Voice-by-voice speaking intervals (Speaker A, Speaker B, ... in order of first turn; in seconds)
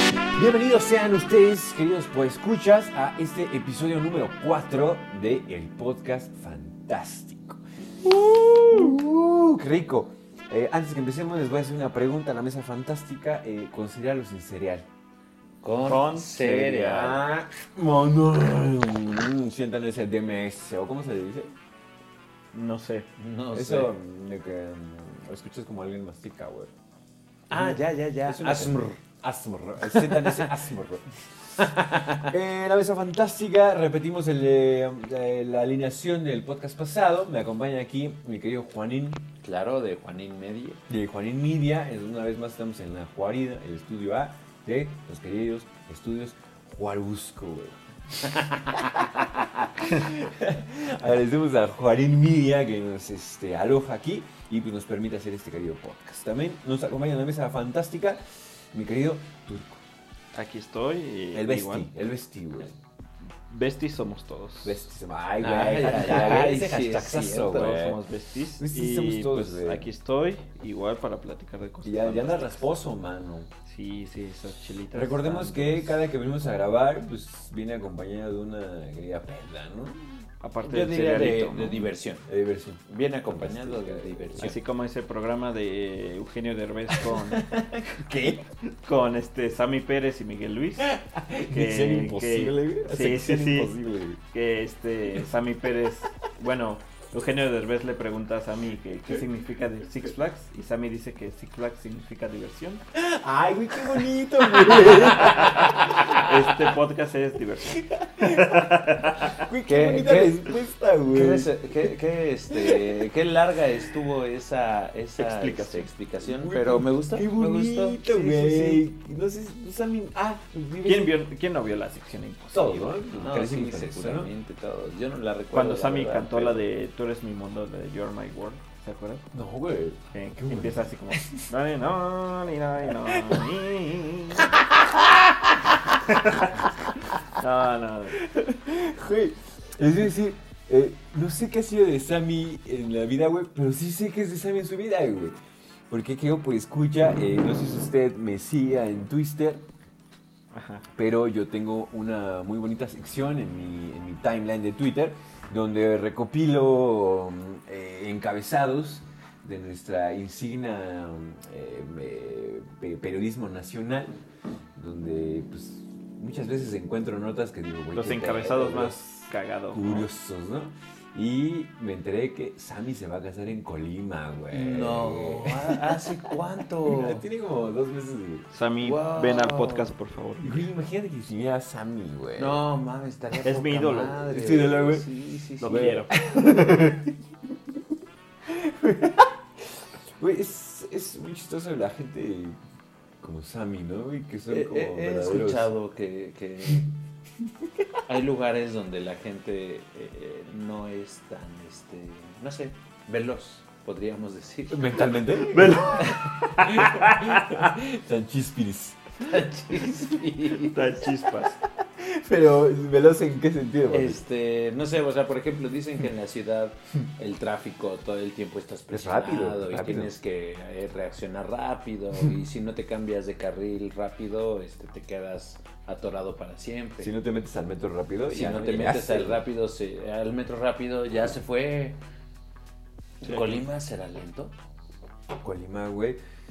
Speaker A: 0.3-14.9, 16.9-21.6, 23.5-26.7, 27.5-31.1, 32.2-39.3, 40.9-59.8, 61.3-62.7, 64.6-68.0, 68.6-69.9, 71.8-73.5, 74.9-80.3, 82.3-84.6, 87.0-88.5, 90.9-94.2, 103.0-106.7, 107.8-111.9, 112.5-113.0, 116.2-121.1, 122.5-124.3, 129.3-131.5, 133.0-133.4, 134.6-135.6, 138.2-145.4, 145.9-149.7, 151.0-164.2, 164.8-175.8, 176.9-178.5, 180.4-182.6, 184.3-185.1, 185.7-187.0, 188.4-192.6, 193.2-195.7, 204.7-209.4, 212.0-214.2, 218.9-220.1, 227.0-229.4, 235.3-236.2
Speaker B: 15.6-17.2, 23.2-23.9, 27.5-29.0, 29.9-30.5, 31.6-32.3, 39.4-40.8, 65.4-67.6, 80.6-82.3, 82.9-84.6, 109.7-110.5, 111.1-118.8, 123.2-126.6, 174.5-177.2, 178.8-179.9, 182.4-186.0, 194.5-196.9, 198.1-205.1, 209.3-211.0, 213.9-227.1, 228.3-232.0, 233.2-234.5
Speaker C: 15.8-17.2, 22.5-23.1, 60.3-61.9, 63.5-64.9, 67.4-72.6, 73.7-76.0, 80.4-81.8, 84.4-87.4, 88.8-93.7, 94.3-102.8, 104.8-109.5, 115.2-115.9, 120.8-123.3, 125.5-129.3, 130.1-134.5, 136.0-136.5, 137.3-138.2, 150.5-150.9, 167.9-170.1, 178.5-180.7, 183.4-184.3, 185.6-187.0, 205.5-207.7, 210.7-211.6, 233.2-233.6